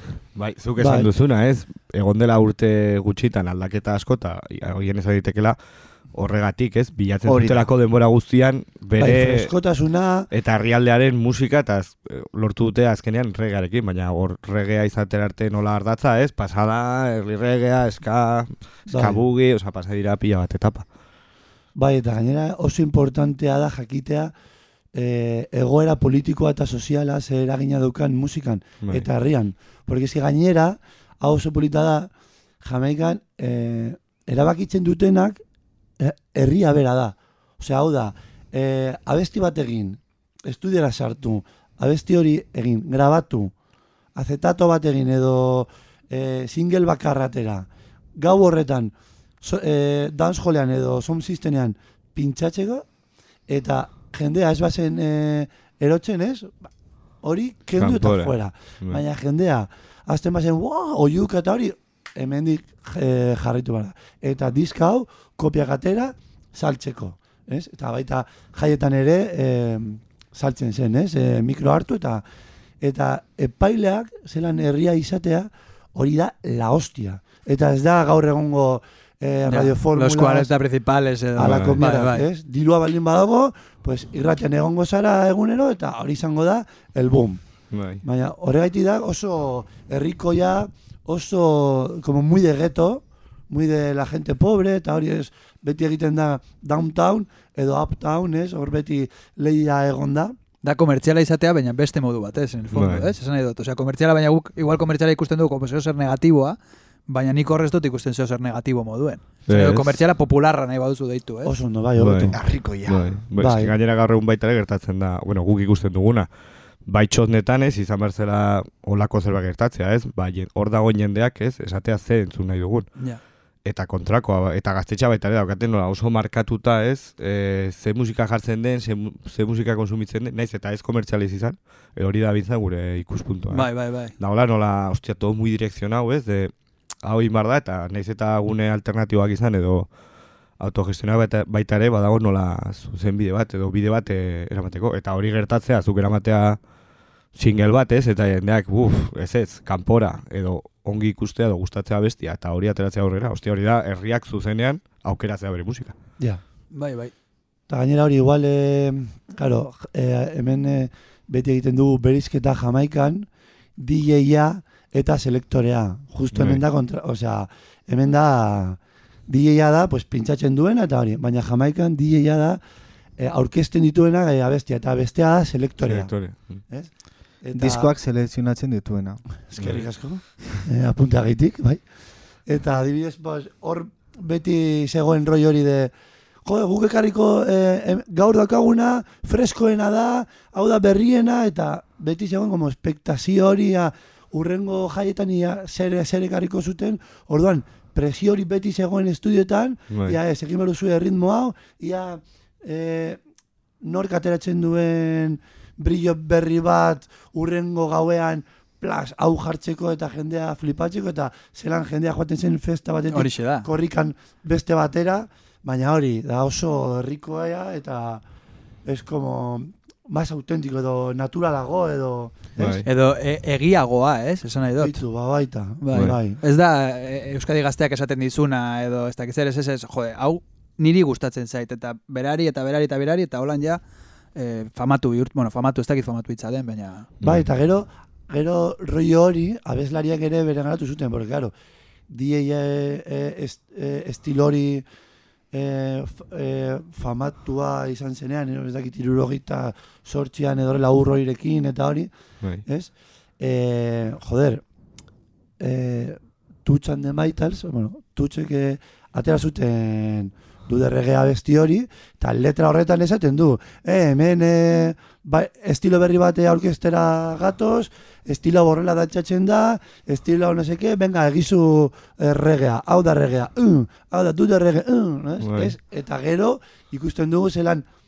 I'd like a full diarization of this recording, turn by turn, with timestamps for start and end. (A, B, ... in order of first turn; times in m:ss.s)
0:00.4-0:05.6 A
0:00.8-0:01.1 B
0:06.1-0:09.5 A
0:07.2-0:07.7 C
0:09.0-0:10.3 B
0:10.3-0:20.9 A
0:18.9-0:19.2 B
0:21.8-0:24.3 B
0:24.9-0:32.1 B
0:32.6-0:35.4 B
0:36.0-0:43.5 B
0:44.2-0:52.9 B
0:53.5-0:56.6 B
0:57.2-1:12.2 B
0:57.8-0:59.0 A
1:12.8-1:20.5 B
1:19.5-1:22.3 D
1:21.4-1:27.4 B
1:21.4-1:21.8 A
1:27.7-1:28.0 A
1:28.0-1:40.4 B
1:40.6-1:51.6 D
1:42.7-1:43.1 A
1:49.5-1:50.0 A
1:51.4-1:52.4 B
1:52.0-1:56.3 A
1:52.3-1:53.2 C
1:53.4-1:53.7 B
1:56.8-2:02.9 A
2:03.6-2:16.5 A
2:13.5-2:14.1 D
2:17.0-2:19.9 A
2:20.6-2:26.6 A
2:27.3-2:36.0 A
2:36.7-2:37.1 D
2:37.7-2:52.6 B
2:46.3-2:46.6 A
2:53.2-2:56.9 B
2:55.9-2:56.6 A
2:57.4-2:57.9 B
2:57.5-2:59.2 C
2:59.5-3:01.8 B
2:59.6-2:59.8 A
3:02.5-3:05.9 B
3:06.4-3:23.2 B
3:19.9-3:20.2 A
3:23.8-3:38.2 B
3:33.1-3:33.7 D
3:38.8-3:42.9 B
3:42.6-3:42.9 A
3:42.8-3:45.0 D
3:44.8-3:46.4 B
3:45.8-3:53.8 D
3:54.4-3:57.1 D
3:57.2-3:57.5 A
3:57.2-4:01.5 B
4:02.1-4:04.8 B
4:05.5-4:12.1 B
4:12.7-4:14.6 B
4:15.6-4:37.9 B
4:35.4-4:35.8 A